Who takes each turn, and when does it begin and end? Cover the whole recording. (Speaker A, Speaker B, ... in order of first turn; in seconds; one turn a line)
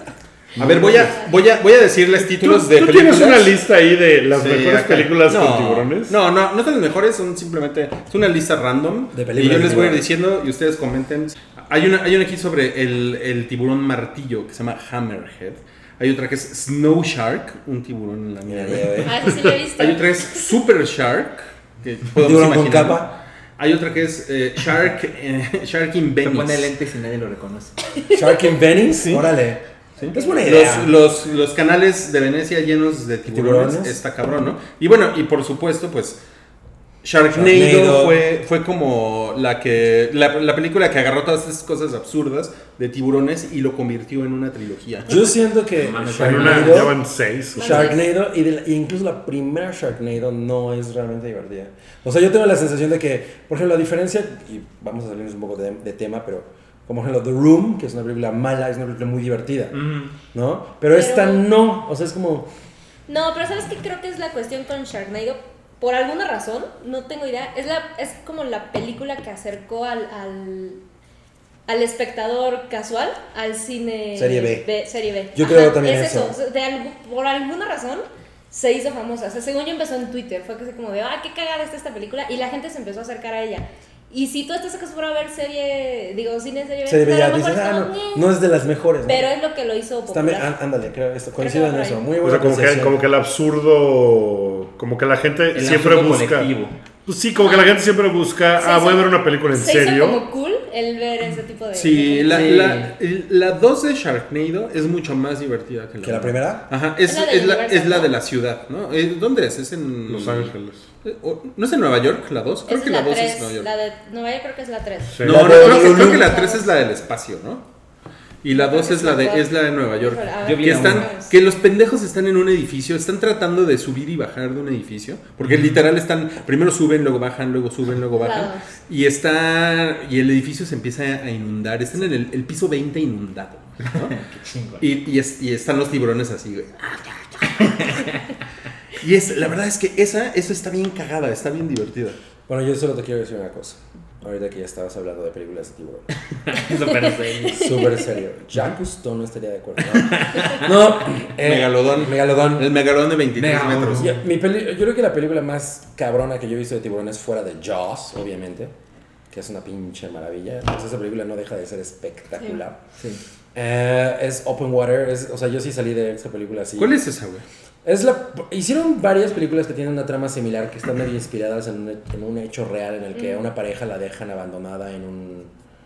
Speaker A: 0.6-1.2
Speaker B: 0.6-3.6
Speaker C: 2.3-6.2
Speaker B: 4.3-19.1
Speaker A: 9.1-10.1
Speaker A: 18.5-19.3
Speaker D: 19.1-20.5
Speaker B: 19.8-26.7
Speaker A: 22.2-23.1
Speaker E: 26.2-27.8
Speaker A: 28.1-30.9
Speaker B: 28.9-29.3
Speaker B: 30.0-36.2
Speaker D: 30.1-30.5
Speaker A: 33.3-34.0
Speaker B: 37.0-45.2
Speaker A: 37.3-38.2
Speaker A: 45.1-47.0
Speaker E: 45.8-46.9
Speaker C: 46.2-47.9
Speaker D: 47.6-48.1
Speaker A: 47.6-59.8
Speaker E: 59.7-60.1
Speaker A: 60.3-62.5
Speaker D: 60.9-61.5
Speaker D: 63.1-70.8
Speaker D: 71.7-88.3
Speaker A: 74.2-74.7
Speaker A: 75.3-76.4
Speaker A: 86.9-89.3
Speaker D: 89.1-90.5
Speaker A: 90.1-93.0
Speaker D: 91.4-92.0
Speaker C: 92.2-96.5
Speaker E: 95.5-96.8
Speaker C: 97.1-100.2
Speaker D: 97.4-97.8
Speaker D: 98.6-102.5
Speaker B: 101.7-113.7
Speaker E: 102.2-102.9
Speaker A: 106.0-106.7
Speaker D: 107.1-108.1
Speaker C: 110.1-110.8
Speaker D: 112.7-116.7
Speaker C: 115.1-115.6
Speaker B: 115.2-117.6
Speaker A: 115.2-116.3
Speaker B: 118.4-134.2
Speaker D: 118.5-121.3
Speaker E: 120.4-121.1
Speaker E: 125.5-125.8
Speaker D: 128.2-128.7
Speaker E: 134.0-134.8
Speaker B: 134.8-138.1
Speaker E: 137.6-138.2
Speaker B: 139.0-142.2
Speaker A: 142.5-146.1
Speaker E: 146.5-147.7
Speaker D: 147.4-147.9
Speaker A: 147.5-152.7
Speaker E: 149.9-150.6
Speaker B: 151.4-154.1
Speaker E: 153.4-154.2
Speaker A: 154.0-158.7
Speaker A: 159.3-162.8
Speaker A: 163.6-167.0
Speaker B: 166.8-167.4
Speaker A: 167.8-175.5
Speaker D: 173.2-173.4